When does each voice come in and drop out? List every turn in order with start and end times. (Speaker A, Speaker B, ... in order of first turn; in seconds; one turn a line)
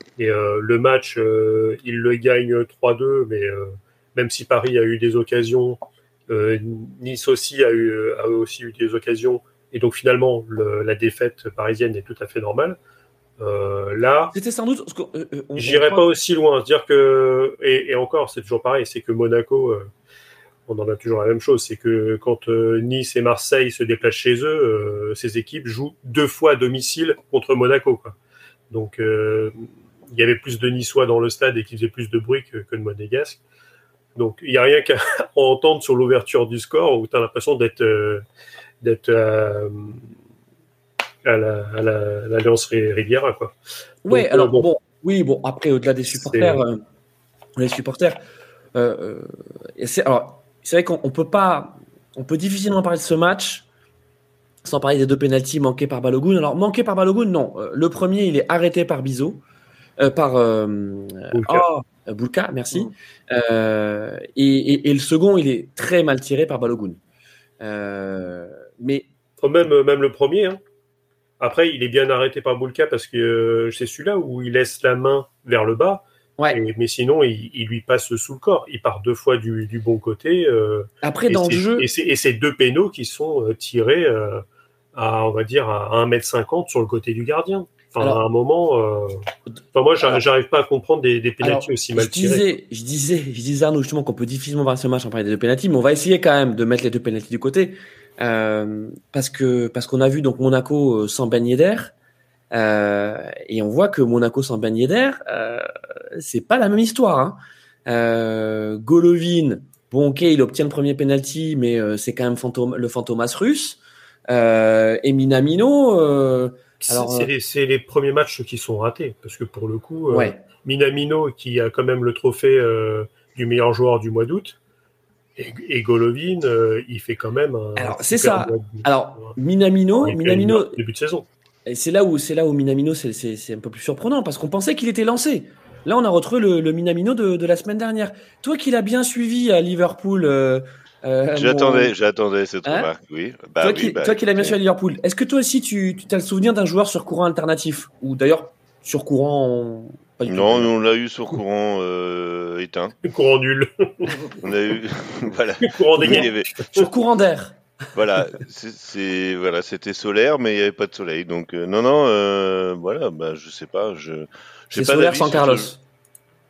Speaker A: 0.2-12.8
Speaker A: 13.4-14.3
Speaker B: 14.3-16.0
Speaker A: 15.6-19.9
Speaker A: 20.7-28.1
Speaker A: 28.7-33.4
Speaker A: 34.1-38.2
Speaker A: 38.8-40.0
Speaker A: 41.2-43.5
Speaker B: 44.0-46.8
Speaker A: 44.1-44.6
Speaker A: 46.1-46.6
Speaker B: 47.5-48.2
Speaker B: 48.7-53.6
Speaker B: 54.6-59.4
Speaker B: 60.0-67.0
Speaker A: 61.3-61.6
Speaker B: 67.6-69.1
Speaker A: 69.4-70.6
Speaker A: 71.4-84.4
Speaker B: 81.0-81.9
Speaker A: 84.9-89.2
Speaker A: 89.7-92.4
Speaker B: 91.4-101.9
Speaker B: 102.5-117.3
Speaker A: 116.8-124.6
Speaker B: 120.1-120.4
Speaker A: 125.4-129.3
Speaker B: 127.8-130.8
Speaker A: 130.0-131.3
Speaker B: 131.7-141.9
Speaker C: 141.3-144.6
Speaker B: 142.6-142.9
Speaker B: 143.6-150.7
Speaker C: 150.3-152.9
Speaker A: 153.0-154.3
Speaker C: 154.4-156.6
Speaker A: 155.6-156.9
Speaker B: 156.0-157.6
Speaker C: 157.9-165.7
Speaker B: 164.7-165.8